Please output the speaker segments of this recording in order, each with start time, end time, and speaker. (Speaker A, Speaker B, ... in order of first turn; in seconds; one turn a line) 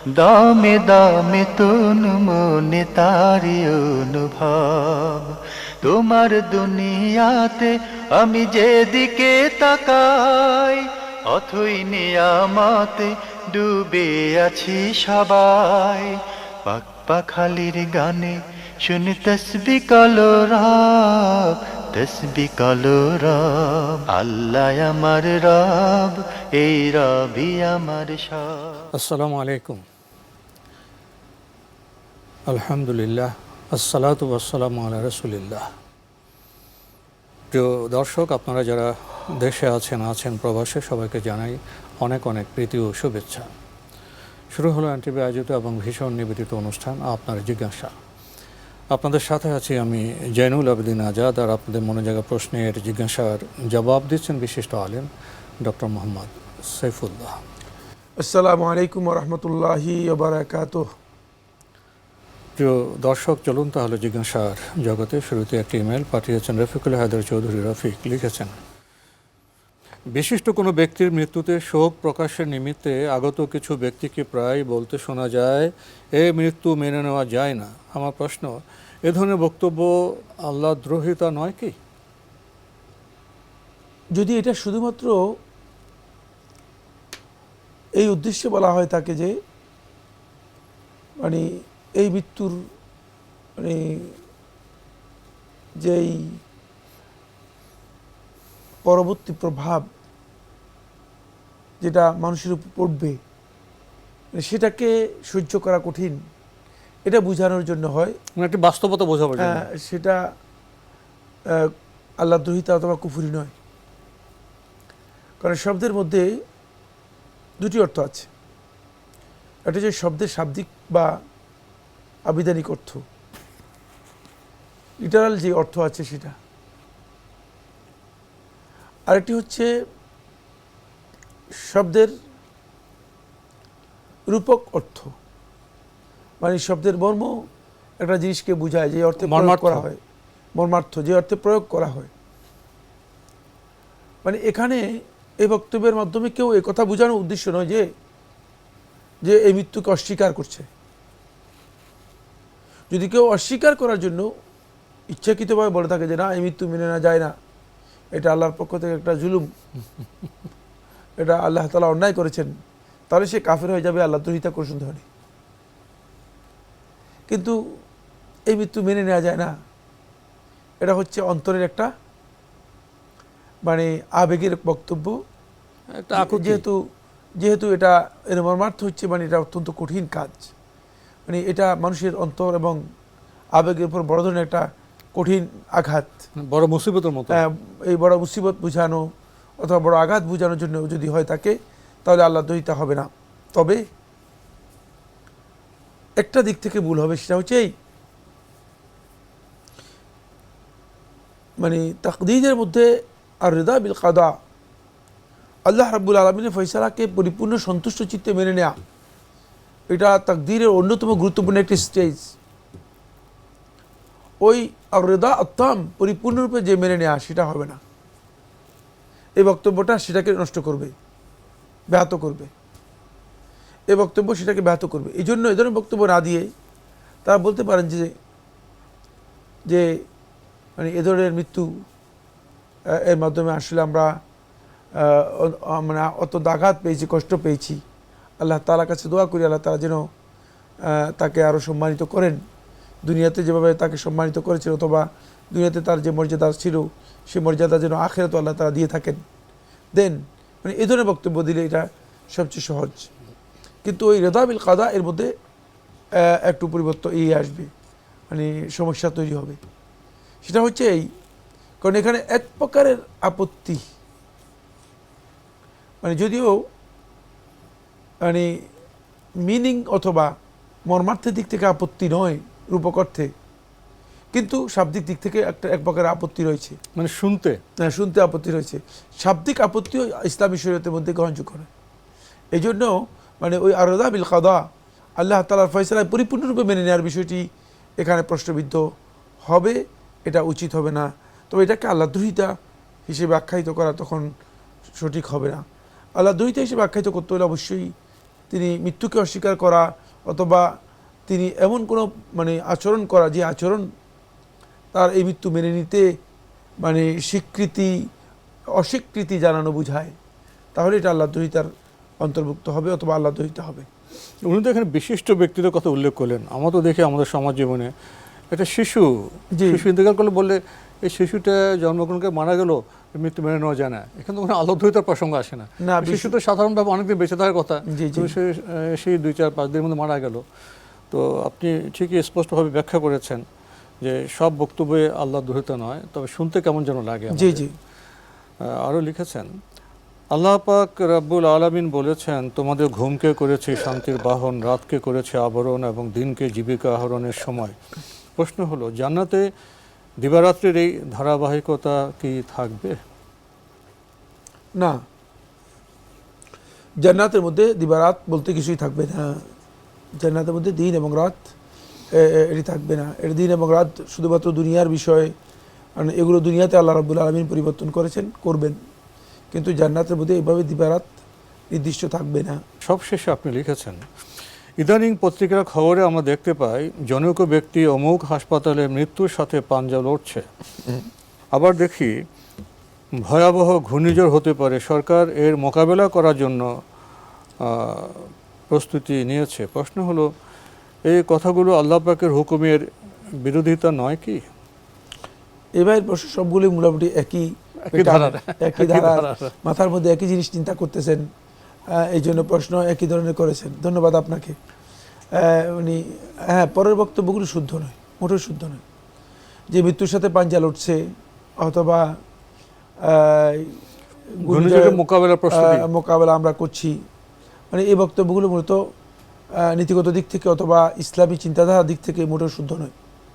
Speaker A: 0.1-28.9
Speaker B: 28.9-29.8
Speaker B: 32.5-35.7
Speaker B: 37.5-43.5
Speaker B: 44.5-47.9
Speaker B: 48.9-55.1
Speaker B: 55.6-57.4
Speaker C: 58.2-60.9
Speaker B: 62.6-68.5
Speaker B: 70.1-78.5
Speaker B: 79.0-81.8
Speaker C: 84.1-85.2
Speaker C: 88.0-89.3
Speaker C: 91.2-92.6
Speaker C: 93.6-94.2
Speaker C: 95.8-96.4
Speaker C: 98.9-99.9
Speaker C: 101.8-103.2
Speaker C: 104.3-106.2
Speaker C: 107.0-108.2
Speaker B: 108.4-109.7
Speaker C: 109.4-110.2
Speaker C: 111.5-113.5
Speaker C: 115.4-116.3
Speaker C: 117.6-118.3
Speaker C: 119.7-121.1
Speaker C: 122.2-123.0
Speaker C: 125.0-126.4
Speaker C: 129.1-129.7
Speaker C: 131.6-132.1
Speaker C: 134.3-135.1
Speaker C: 136.4-137.4
Speaker C: 138.0-140.0
Speaker B: 139.2-139.8
Speaker C: 140.6-142.1
Speaker C: 144.2-147.9
Speaker C: 149.2-150.7
Speaker C: 152.9-154.3
Speaker C: 155.1-157.3
Speaker C: 158.1-159.5
Speaker C: 161.2-162.5
Speaker C: 163.1-165.0
Speaker C: 167.3-167.6
Speaker C: 168.5-169.5
Speaker C: 170.8-171.9
Speaker C: 173.7-175.2
Speaker B: 175.9-176.6
Speaker C: 176.1-176.8
Speaker C: 177.4-180.5
Speaker C: 181.2-182.8
Speaker C: 183.6-186.2
Speaker B: 186.4-187.4
Speaker C: 187.3-189.1
Speaker C: 189.6-193.8
Speaker C: 196.2-197.7
Speaker C: 201.6-202.9
Speaker C: 203.4-204.3
Speaker C: 205.7-208.7
Speaker C: 209.9-212.3
Speaker C: 214.4-217.8
Speaker C: 219.4-220.9
Speaker C: 221.9-222.5
Speaker C: 223.9-226.5
Speaker C: 227.2-228.1
Speaker C: 229.7-230.0
Speaker C: 230.8-231.8
Speaker C: 232.9-234.2
Speaker C: 234.9-237.8
Speaker C: 238.4-240.1
Speaker C: 240.8-242.4
Speaker C: 243.0-249.2
Speaker C: 249.9-253.1
Speaker C: 253.8-255.3
Speaker C: 256.2-257.7
Speaker C: 258.3-259.6
Speaker C: 260.4-261.1
Speaker C: 261.8-263.8
Speaker C: 266.0-266.6
Speaker C: 268.2-268.6
Speaker C: 269.4-270.3
Speaker C: 270.9-273.3
Speaker C: 274.3-276.8
Speaker B: 276.9-277.6
Speaker C: 277.8-281.7
Speaker C: 282.5-284.6
Speaker C: 285.2-287.5
Speaker C: 288.0-288.8
Speaker C: 289.4-292.5
Speaker C: 293.1-294.3
Speaker C: 295.0-295.6
Speaker C: 296.2-297.9
Speaker C: 298.5-300.7
Speaker C: 301.3-303.9
Speaker C: 304.9-306.1
Speaker C: 306.8-307.9
Speaker C: 308.8-310.1
Speaker C: 310.7-311.7
Speaker C: 312.2-313.9
Speaker B: 314.4-317.9
Speaker B: 318.5-330.4
Speaker C: 319.5-319.9
Speaker C: 325.8-326.4
Speaker C: 327.9-328.4
Speaker B: 331.1-333.4
Speaker B: 334.0-337.6
Speaker C: 337.3-337.7
Speaker B: 338.6-339.5
Speaker B: 340.3-347.8
Speaker B: 348.4-349.4
Speaker B: 350.2-353.0
Speaker C: 354.8-355.0
Speaker C: 357.0-359.4
Speaker C: 360.2-361.5
Speaker C: 362.1-365.3
Speaker C: 366.0-368.8
Speaker C: 369.5-371.1
Speaker C: 371.7-372.6
Speaker B: 372.8-374.0
Speaker B: 374.8-380.4
Speaker B: 381.5-382.1
Speaker B: 383.2-386.7
Speaker B: 387.6-390.3
Speaker B: 391.1-392.9
Speaker B: 393.4-394.4
Speaker C: 395.8-401.2
Speaker B: 397.9-399.5
Speaker C: 401.9-404.6
Speaker C: 405.3-408.8
Speaker C: 409.7-411.0
Speaker C: 411.6-412.1
Speaker C: 413.0-413.8
Speaker C: 414.4-415.0
Speaker B: 414.4-415.9
Speaker C: 415.5-417.0
Speaker C: 417.7-418.8
Speaker C: 419.6-422.9